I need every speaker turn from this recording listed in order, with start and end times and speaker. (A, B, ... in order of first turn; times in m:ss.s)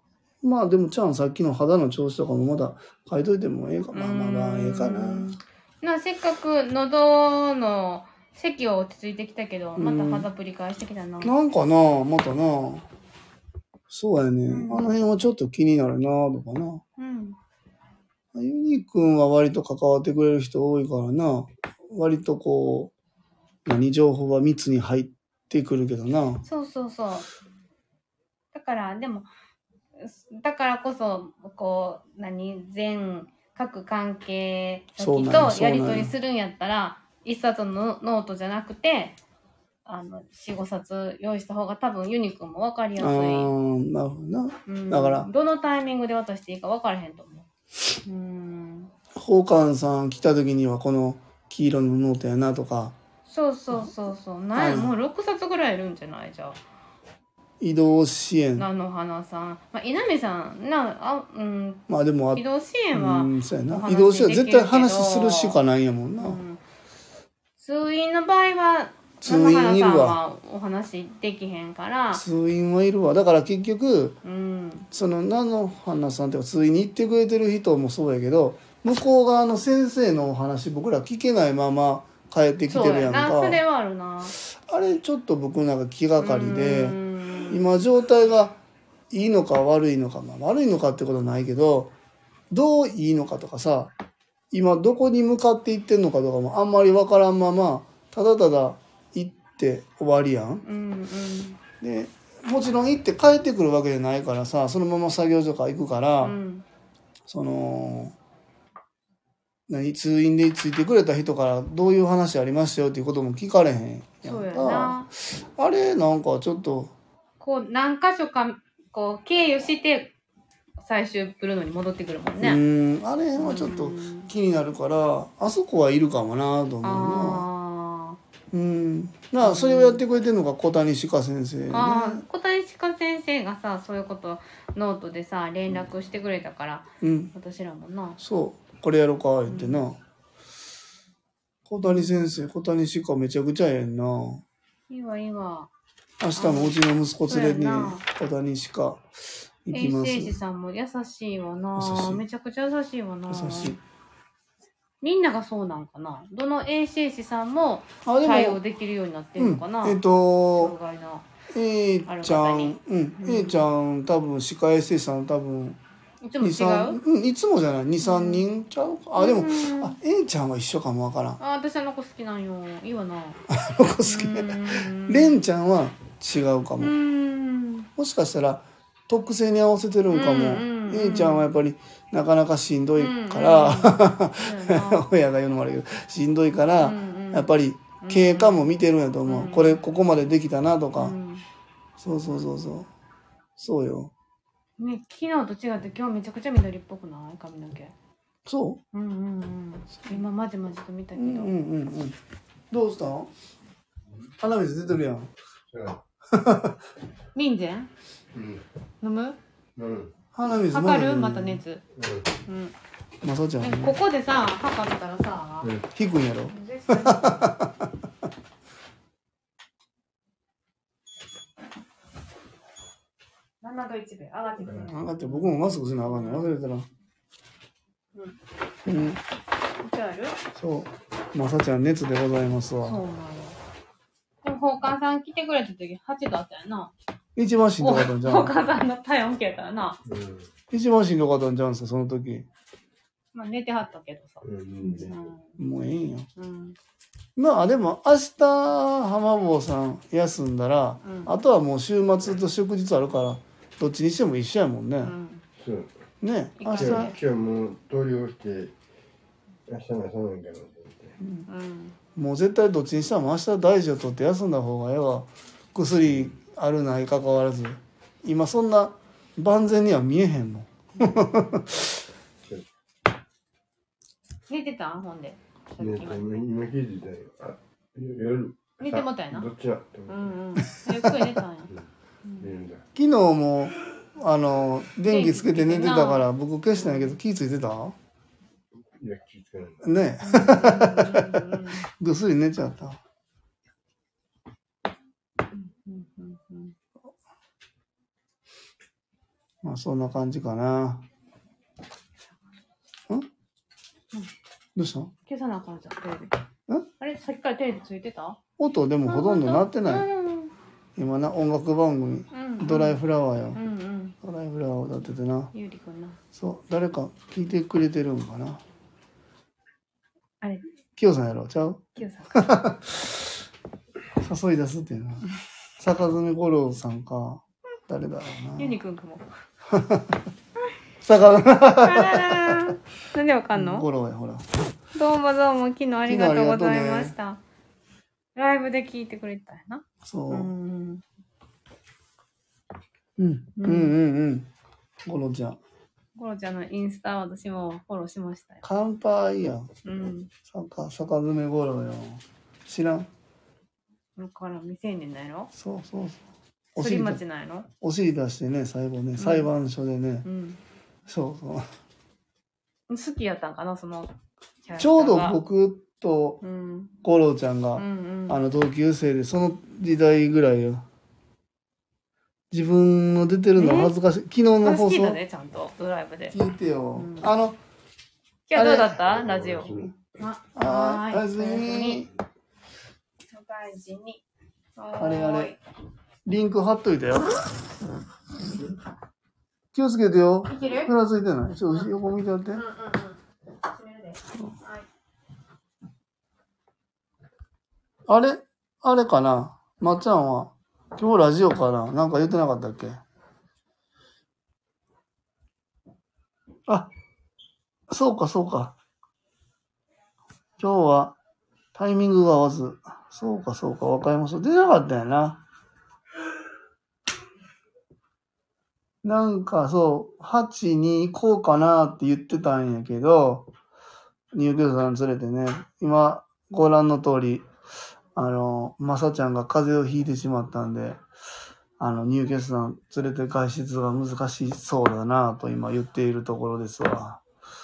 0:00.4-0:05.3 A
0:03.9-0:11.3 B
0:09.8-0:10.3 A
0:11.2-0:12.9 A
0:13.9-0:16.8 A
0:14.5-0:14.9 B
0:17.0-0:17.4 B
0:18.3-0:22.9 A
0:23.6-0:26.4 A
0:26.4-0:27.3 B
0:28.5-0:29.3 B
0:30.0-0:39.2 B
0:35.0-0:36.1 A
0:39.9-0:43.5 B
0:43.0-0:45.3 A
0:44.7-0:47.5 B
0:48.0-0:48.9 B
0:49.1-0:53.0 A
0:53.3-0:56.6 B
0:54.6-0:55.0 A
0:57.6-0:58.7 A
0:58.6-1:05.6 B
1:01.9-1:06.4 A
1:06.2-1:06.6 B
1:07.6-1:12.2 B
1:09.2-1:10.2 A
1:12.1-1:14.2 A
1:14.2-1:14.9 B
1:14.9-1:23.6 A
1:22.7-1:24.3 B
1:24.4-1:27.0 A
1:26.2-1:27.6 B
1:27.5-1:28.6 A
1:29.1-1:31.9 A
1:32.5-1:33.9 A
1:34.5-1:40.6 A
1:40.6-1:41.6 B
1:41.8-1:46.4 A
1:46.2-1:46.6 B
1:47.3-1:48.2 A
1:49.7-1:56.9 A
1:54.2-1:55.1 B
1:57.4-2:00.1 B
2:00.8-2:02.6 B
2:02.4-2:07.4 A
2:03.4-2:04.3 B
2:06.8-2:08.2 B
2:08.5-2:12.2 A
2:09.4-2:10.0 B
2:11.7-2:18.2 B
2:17.0-2:17.3 A
2:18.2-2:20.0 A
2:19.5-2:19.8 B
2:21.7-2:24.4 A
2:24.9-2:25.7 B
2:26.2-2:29.1 A
2:26.4-2:28.0 B
2:29.6-2:30.4 A
2:29.7-2:33.8 B
2:31.8-2:32.2 A
2:33.3-2:33.8 A
2:35.0-2:40.0 B
2:38.0-2:38.6 A
2:39.4-2:40.7 A
2:40.5-2:41.3 B
2:41.5-2:45.8 A
2:42.1-2:43.6 B
2:46.2-2:47.0 B
2:46.4-2:51.4 A
2:48.0-2:48.5 B
2:49.2-2:50.0 B
2:51.4-2:53.4 B
2:53.5-2:56.9 A
2:54.0-2:55.4 B
2:56.8-2:57.9 B
2:58.0-3:11.2 A
3:00.1-3:01.5 B
3:03.0-3:05.0 B
3:06.8-3:08.6 B
3:09.3-3:09.8 B
3:11.0-3:11.4 B
3:12.0-3:12.9 A
3:13.6-3:14.1 A
3:14.8-3:17.9 B
3:18.5-3:18.8 A
3:18.9-3:21.5 B
3:21.2-3:22.2 A
3:22.7-3:23.3 A
3:24.4-3:25.3 A
3:25.7-3:26.0 C
3:26.3-3:26.8 A
3:27.4-3:27.9 B
3:28.3-3:28.6 C
3:29.0-3:29.4 B
3:29.8-3:30.1 C
3:30.3-3:31.6 A
3:30.4-3:31.8 B
3:31.9-3:32.4 C
3:32.5-3:32.7 B
3:33.2-3:34.0 A
3:33.6-3:35.7 B
3:35.6-3:35.9 C
3:35.9-3:37.9 A
3:36.5-3:37.5 B
3:43.6-3:46.5 B
3:44.8-3:46.9 A
3:48.9-3:49.2 A
3:49.8-3:50.4 B
3:50.6-3:53.0 A
3:52.8-3:53.6 B
3:54.4-3:56.9 B
3:57.4-3:58.5 A
3:57.8-4:00.0 B
4:00.1-4:00.5 C
4:00.7-4:02.5 A
4:03.3-4:05.6 B
4:04.4-4:05.2 C
4:05.6-4:06.3 A
4:06.4-4:06.8 B
4:07.4-4:15.2 A
4:11.0-4:11.3 B
4:15.0-4:15.4 B
4:15.6-4:15.9 C
4:16.2-4:17.2 A
4:16.6-4:17.2 B
4:16.7-4:18.7 C
4:19.7-4:21.2 C
4:21.5-4:22.0 B
4:22.2-4:32.0 A
4:34.5-4:36.3 B
4:35.8-4:40.4 C
4:38.8-4:39.5 B
4:40.1-4:41.7 B
4:40.8-4:41.2 A
4:42.4-4:42.8 C
4:43.0-4:48.0 A
4:45.1-4:47.2 B
4:48.9-4:49.9 C
4:49.8-4:53.0 A
4:50.2-4:51.9 B
4:55.5-4:56.8 B
4:59.6-5:01.0 A
5:04.8-5:05.1 A
5:05.3-5:06.4 B
5:07.0-5:08.4 B
5:08.6-5:10.1 A
5:09.1-5:10.5 B
5:11.0-5:13.6 A
5:12.3-5:13.0 B
5:13.5-5:14.2 B
5:14.2-5:15.5 A
5:15.5-5:16.2 B
5:16.3-5:18.6 A
5:21.0-5:23.4 A
5:22.0-5:22.5 B
5:24.2-5:25.2 A
5:25.8-5:28.8 A
5:28.6-5:29.3 B
5:29.7-5:30.2 A
5:31.0-5:32.7 A
5:31.8-5:33.8 B
5:33.5-5:34.5 A
5:35.0-5:37.4 B
5:36.1-5:37.1 A
5:38.4-5:41.0 B
5:40.0-5:40.5 A
5:43.2-5:44.5 A
5:43.6-5:44.0 B
5:45.0-5:45.6 A
5:46.2-5:48.6 B
5:48.6-5:49.7 A
5:49.8-5:50.3 B
5:50.5-5:53.1 A
5:54.2-5:55.5 B
5:55.5-5:56.2 A
5:56.8-5:57.2 A
5:56.8-5:57.7 B
5:57.8-6:00.3 A
5:59.2-5:59.5 B
6:00.2-6:00.6 B
6:01.1-6:01.7 A
6:02.9-6:04.1 B
6:04.6-6:05.4 B
6:04.8-6:06.4 A
6:06.4-6:06.9 B
6:07.0-6:10.8 A
6:07.8-6:08.4 B
6:12.5-6:15.2 A
6:13.6-6:13.9 B
6:14.6-6:16.4 B
6:16.3-6:17.6 A
6:16.9-6:17.3 B
6:18.5-6:22.1 B
6:18.5-6:19.0 A
6:19.1-6:19.9 C
6:20.6-6:22.1 A
6:23.3-6:24.2 B
6:24.8-6:25.6 B
6:25.0-6:25.6 A
6:26.2-6:27.4 A
6:29.7-6:32.6 A
6:30.5-6:30.9 B
6:32.5-6:34.8 B
6:38.1-6:43.0 A
6:47.9-6:48.8 A
6:50.6-6:51.2 A
6:51.7-6:55.4 A
6:59.0-7:03.5 A
7:04.3-7:07.5 A
7:08.2-7:11.0 A
7:11.8-7:17.2 A